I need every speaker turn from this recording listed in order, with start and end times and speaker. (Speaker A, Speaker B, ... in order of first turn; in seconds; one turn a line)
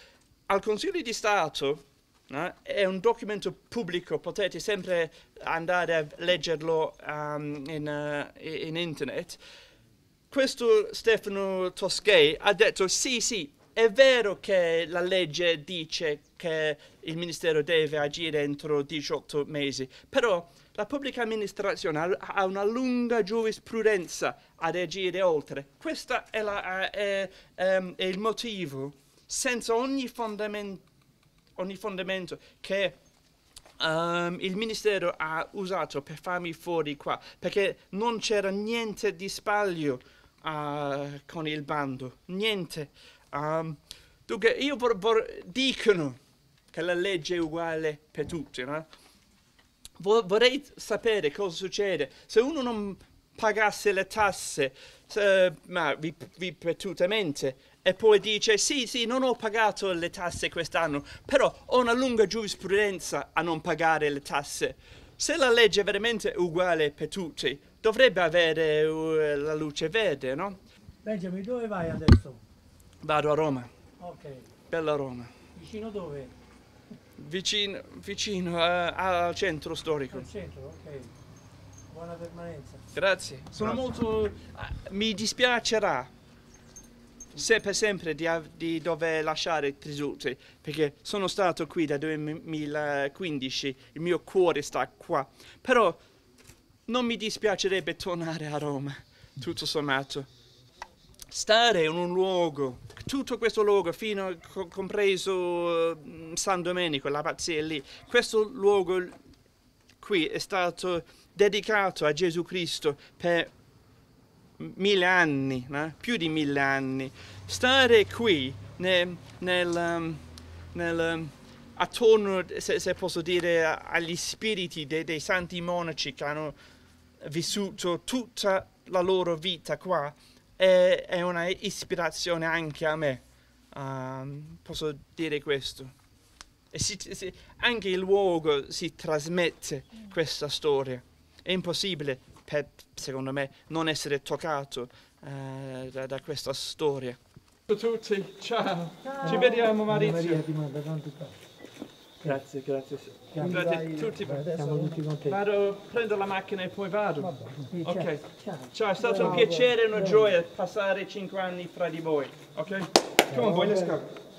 Speaker A: 0.5-9.4
Speaker A: 10.3-30.8
Speaker A: 31.6-33.0
Speaker A: 33.8-46.2
Speaker A: 46.7-48.9
Speaker A: 50.0-70.6
Speaker B: 71.0-72.4
Speaker A: 73.0-73.7
Speaker B: 74.0-74.5
Speaker A: 74.7-75.3
Speaker B: 75.5-76.3
Speaker A: 77.2-80.3
Speaker B: 80.1-81.1
Speaker B: 81.9-82.8
Speaker A: 82.9-86.1
Speaker A: 87.3-96.0
Speaker A: 96.9-100.3
Speaker A: 101.3-109.2
Speaker A: 110.0-113.5
Speaker A: 114.6-120.2
Speaker A: 120.7-126.6
Speaker A: 127.2-135.9
Speaker A: 136.7-150.5
Speaker B: 149.1-151.3
Speaker A: 152.2-164.1
Speaker B: 153.3-155.3
Speaker B: 157.3-160.2
Speaker B: 163.3-163.9